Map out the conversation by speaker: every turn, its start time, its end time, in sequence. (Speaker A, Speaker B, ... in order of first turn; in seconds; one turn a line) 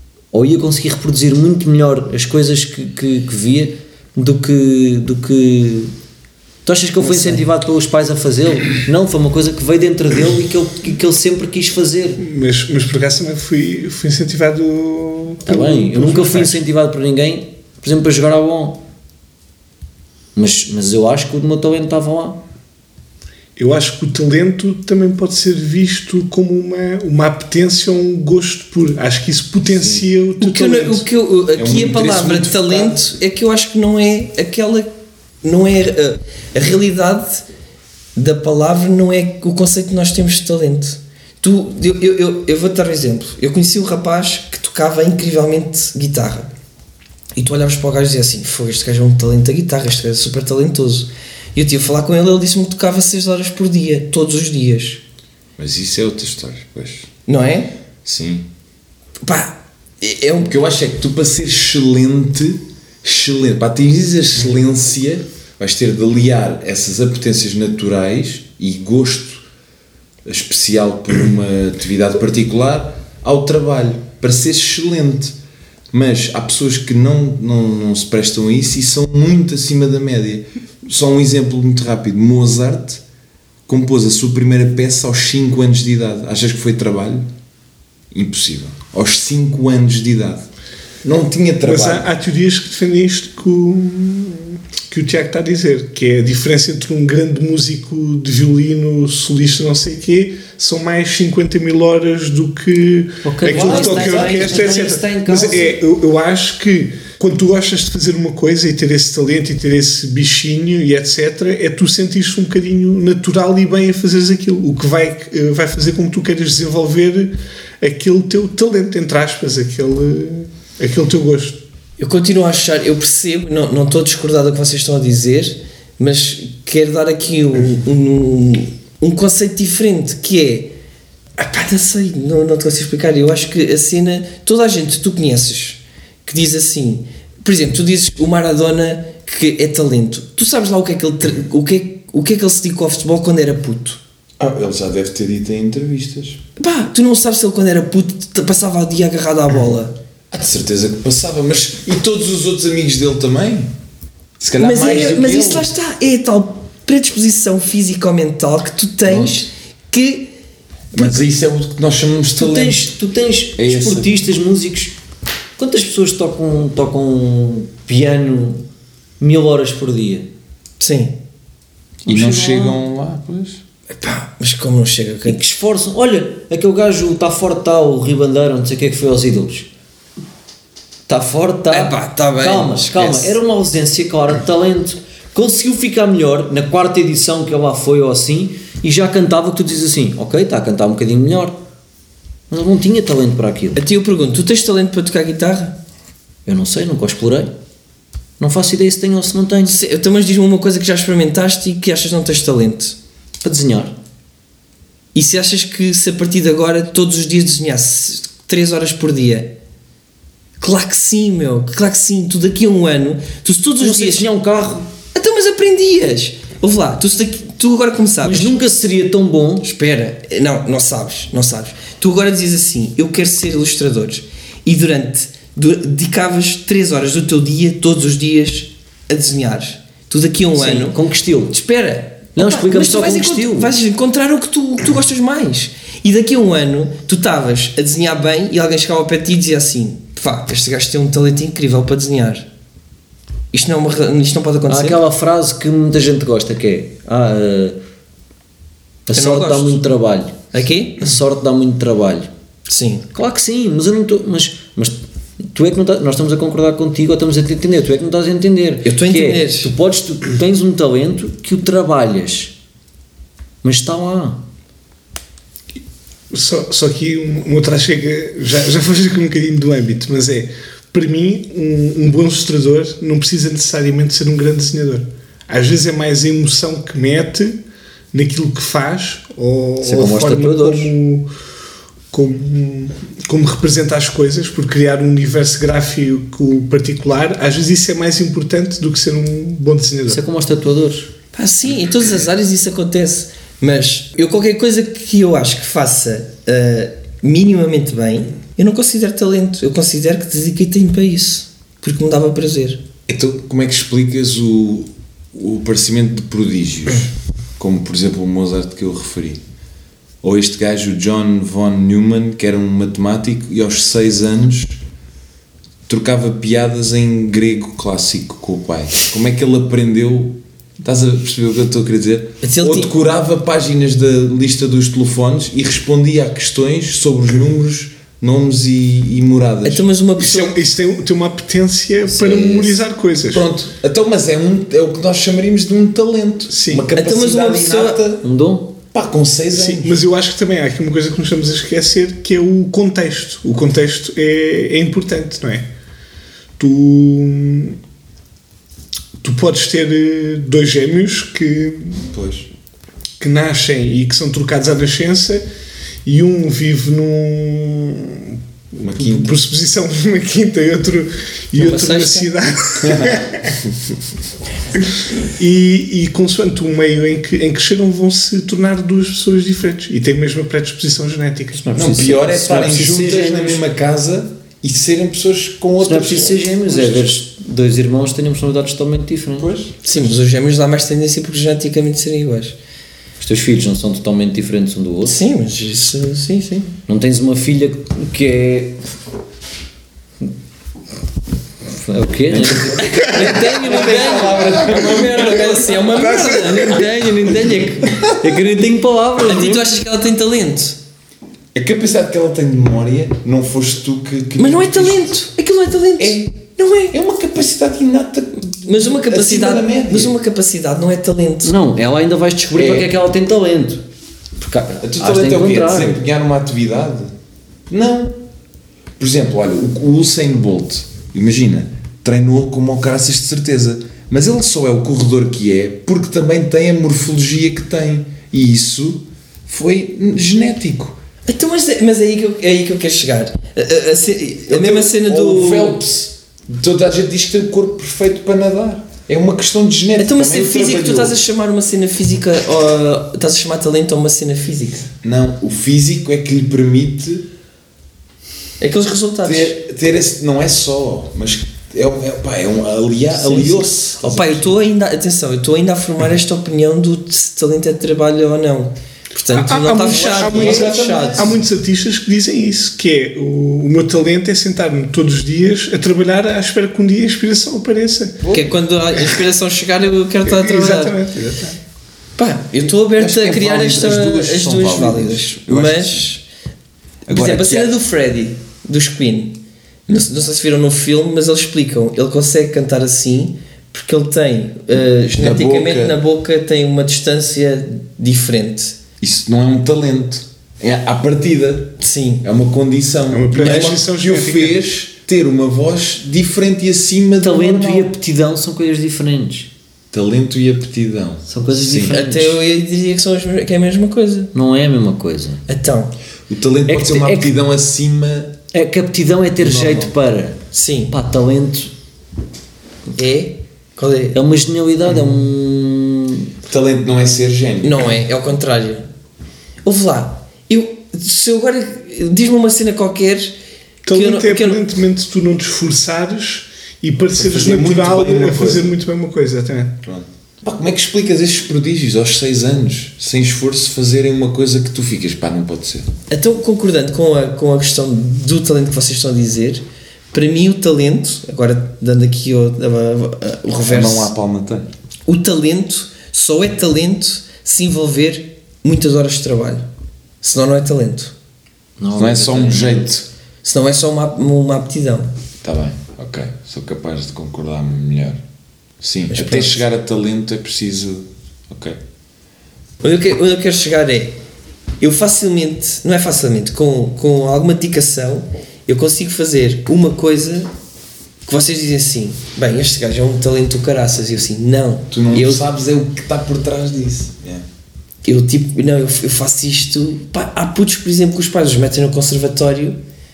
Speaker A: 0.3-5.9
Speaker A: 6.7-12.2
Speaker B: 7.1-7.4
Speaker C: 12.2-16.6
Speaker A: 15.5-18.8
Speaker A: 20.4-22.4
Speaker C: 23.6-31.1
Speaker D: 29.7-30.1
Speaker B: 30.4-34.9
Speaker D: 31.6-33.0
Speaker B: 35.4-37.5
Speaker B: 38.1-46.5
Speaker B: 47.4-55.0
Speaker D: 55.6-57.1
Speaker B: 57.3-57.7
Speaker D: 58.0-58.5
Speaker B: 59.2-60.5
Speaker D: 60.4-69.4
Speaker D: 70.3-75.4
Speaker D: 75.9-83.0
Speaker D: 83.7-87.3
Speaker D: 88.1-90.5
Speaker D: 91.0-92.0
Speaker C: 91.6-121.6
Speaker A: 103.2-105.8
Speaker B: 103.5-104.6
Speaker B: 122.0-130.7
Speaker B: 131.4-144.0
Speaker D: 144.4-146.4
Speaker B: 146.6-149.9
Speaker D: 150.3-153.7
Speaker D: 154.4-155.7
Speaker B: 154.6-160.3
Speaker D: 160.9-162.9
Speaker A: 162.4-165.0
Speaker D: 163.6-164.1
Speaker A: 165.6-168.6
Speaker A: 169.2-170.3
Speaker B: 170.8-171.2
Speaker A: 172.1-172.8
Speaker D: 172.1-173.6
Speaker B: 174.0-175.4
Speaker A: 175.2-179.7
Speaker A: 181.1-191.6
Speaker B: 181.7-183.4
Speaker A: 192.5-193.8
Speaker B: 193.8-195.8
Speaker A: 196.5-197.5
Speaker A: 198.4-199.8
Speaker B: 199.7-203.0
Speaker A: 203.4-203.9
Speaker B: 205.1-209.5
Speaker B: 210.6-214.3
Speaker A: 213.8-214.9
Speaker B: 215.1-218.5
Speaker A: 218.2-219.7
Speaker B: 219.6-231.0
Speaker A: 230.5-231.6
Speaker B: 231.5-242.5
Speaker A: 232.3-233.7
Speaker B: 243.5-245.0
Speaker A: 244.7-247.8
Speaker A: 249.1-252.3
Speaker B: 249.1-249.9
Speaker B: 250.5-251.1
Speaker B: 252.7-253.1
Speaker A: 253.1-262.5
Speaker B: 258.9-259.7
Speaker A: 263.6-264.4
Speaker C: 266.3-277.6
Speaker C: 278.1-281.3
Speaker A: 279.8-280.9
Speaker C: 282.1-290.2
Speaker A: 290.1-291.1
Speaker B: 291.4-302.8
Speaker D: 303.1-309.4
Speaker D: 310.2-314.8
Speaker D: 315.9-329.9
Speaker B: 322.4-322.9
Speaker B: 329.6-330.6
Speaker C: 330.2-333.5
Speaker D: 332.2-332.5
Speaker D: 333.3-338.3
Speaker C: 336.5-336.9
Speaker B: 336.9-338.0
Speaker A: 338.2-338.7
Speaker D: 338.9-339.9
Speaker C: 339.5-345.7
Speaker C: 346.6-347.8
Speaker C: 349.2-352.1
Speaker D: 352.1-352.5
Speaker C: 353.2-355.5
Speaker C: 356.1-363.6
Speaker D: 358.8-359.4
Speaker B: 361.6-362.3
Speaker D: 362.8-363.2
Speaker C: 364.8-371.7
Speaker A: 371.6-373.6
Speaker D: 371.8-377.1
Speaker A: 375.8-379.5
Speaker D: 379.4-379.8
Speaker B: 379.8-382.6
Speaker A: 383.2-385.2
Speaker B: 385.1-386.8
Speaker A: 386.9-388.8
Speaker A: 391.8-399.7
Speaker D: 392.3-395.8
Speaker B: 392.8-397.8
Speaker B: 399.3-400.8
Speaker D: 401.5-405.2
Speaker B: 404.4-406.9
Speaker D: 406.0-406.3
Speaker D: 406.9-410.1
Speaker B: 408.6-411.5
Speaker A: 411.4-413.9
Speaker D: 412.6-412.9
Speaker A: 414.4-416.0
Speaker D: 414.8-417.1
Speaker D: 417.7-418.2
Speaker D: 419.0-431.0
Speaker B: 431.3-435.8
Speaker D: 434.5-441.2
Speaker B: 440.0-444.9
Speaker D: 445.0-447.3
Speaker B: 448.6-449.6
Speaker D: 449.2-454.6
Speaker B: 453.1-461.3
Speaker C: 459.3-468.2
Speaker D: 459.8-461.4
Speaker D: 468.2-468.5
Speaker B: 468.3-471.0
Speaker C: 470.2-471.6
Speaker B: 472.2-476.2
Speaker D: 473.0-476.1
Speaker D: 477.1-477.8
Speaker B: 477.1-488.8
Speaker D: 485.1-486.0
Speaker D: 489.0-497.9
Speaker B: 491.8-492.2
Speaker C: 493.1-494.6
Speaker B: 493.4-493.7
Speaker A: 497.2-499.5
Speaker D: 499.9-501.9
Speaker A: 501.3-502.4
Speaker B: 501.9-504.3
Speaker A: 504.3-505.4
Speaker B: 505.5-505.9
Speaker D: 506.3-508.4
Speaker A: 506.7-507.3
Speaker A: 508.5-510.4
Speaker D: 509.4-509.9
Speaker B: 510.5-510.9
Speaker A: 510.9-511.7
Speaker B: 513.0-514.2
Speaker A: 514.1-516.3
Speaker D: 514.9-515.1
Speaker D: 516.5-518.0
Speaker B: 517.6-518.9
Speaker B: 519.6-523.4
Speaker C: 523.8-529.8
Speaker B: 523.9-524.6
Speaker D: 527.1-528.7
Speaker D: 529.8-535.9
Speaker B: 536.1-544.1
Speaker D: 543.7-544.7
Speaker B: 545.1-549.7
Speaker B: 550.2-551.1
Speaker A: 551.8-552.9
Speaker D: 552.0-553.1
Speaker B: 553.4-555.1
Speaker D: 555.4-558.2
Speaker D: 558.8-561.8
Speaker B: 559.1-559.6
Speaker B: 562.8-564.2
Speaker B: 564.8-570.5
Speaker B: 571.3-575.4
Speaker D: 574.9-577.5
Speaker B: 578.0-582.8